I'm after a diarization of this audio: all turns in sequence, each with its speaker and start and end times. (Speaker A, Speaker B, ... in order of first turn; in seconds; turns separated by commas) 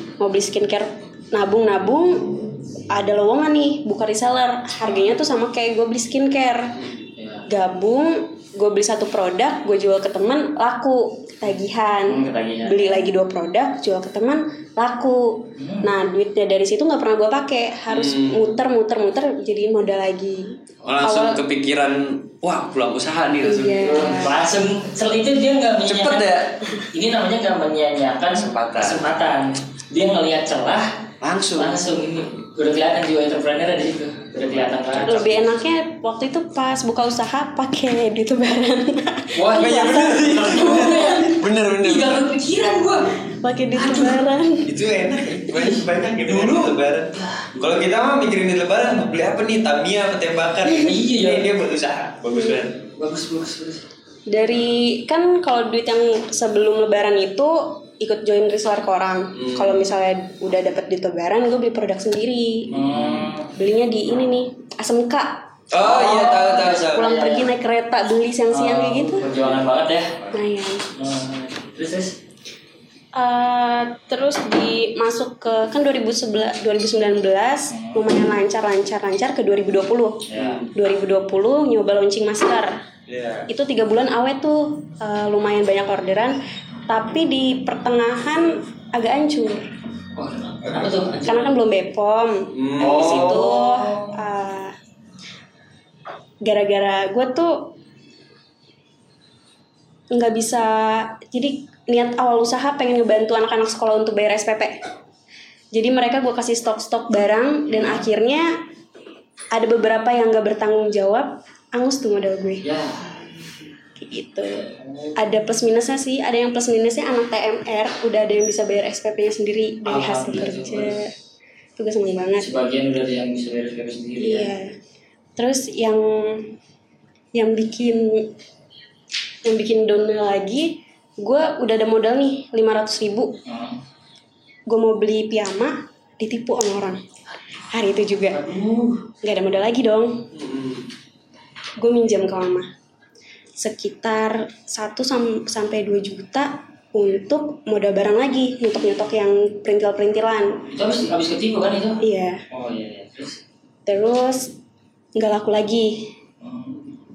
Speaker A: 0.2-6.8, Speaker B: 7.2-7.5, Speaker A: 7.5-21.4, Speaker B: 12.1-12.9, Speaker B: 15.5-15.9, Speaker C: 17.9-18.5, Speaker C: 20.8-24.0, Speaker A: 23.4-24.4, Speaker B: 23.8-35.1, Speaker C: 25.8-26.6, Speaker C: 28.3-29.1, Speaker C: 31.2-31.9, Speaker C: 34.5-35.5, Speaker A: 35.0-41.4, Speaker B: 39.3-43.2, Speaker C: 39.4-42.2, Speaker A: 43.3-44.7, Speaker B: 43.7-44.2, Speaker C: 44.6-52.8, Speaker B: 45.5-47.6, Speaker B: 50.8-51.5, Speaker A: 52.3-52.6, Speaker B: 52.9-53.8, Speaker A: 54.3-62.7, Speaker C: 59.3-59.9, Speaker B: 62.7-63.5, Speaker C: 62.8-63.3, Speaker A: 63.5-65.5, Speaker C: 65.7-67.1, Speaker B: 65.8-67.5, Speaker A: 66.2-69.3, Speaker B: 68.5-70.2, Speaker C: 69.3-69.6, Speaker A: 70.3-70.8, Speaker B: 70.9-72.2, Speaker A: 73.1-82.8, Speaker B: 77.7-78.0, Speaker B: 80.3-80.7, Speaker C: 80.4-80.7, Speaker C: 83.1-83.5, Speaker A: 83.5-86.4, Speaker A: 86.9-89.7, Speaker B: 90.2-91.6, Speaker C: 90.7-91.0, Speaker A: 91.2-94.7, Speaker C: 92.5-93.4, Speaker B: 92.8-94.2, Speaker A: 96.4-97.7, Speaker A: 100.1-104.8, Speaker A: 105.7-108.6, Speaker B: 107.7-108.0, Speaker A: 109.5-112.6, Speaker B: 112.6-113.1, Speaker A: 114.0-121.1, Speaker B: 114.6-115.1, Speaker B: 119.8-121.0, Speaker A: 121.8-122.5, Speaker B: 122.4-124.5, Speaker A: 124.2-124.7, Speaker A: 125.4-126.5, Speaker A: 127.3-128.3, Speaker A: 129.4-133.3, Speaker B: 133.4-133.8, Speaker A: 134.7-137.0, Speaker A: 137.7-138.4, Speaker B: 138.3-139.1, Speaker A: 139.2-140.3, Speaker C: 140.3-140.9, Speaker A: 141.8-142.7, Speaker A: 143.6-150.7, Speaker B: 150.7-153.4, Speaker A: 152.0-152.4, Speaker A: 153.8-154.5, Speaker A: 155.1-156.1, Speaker B: 156.4-156.8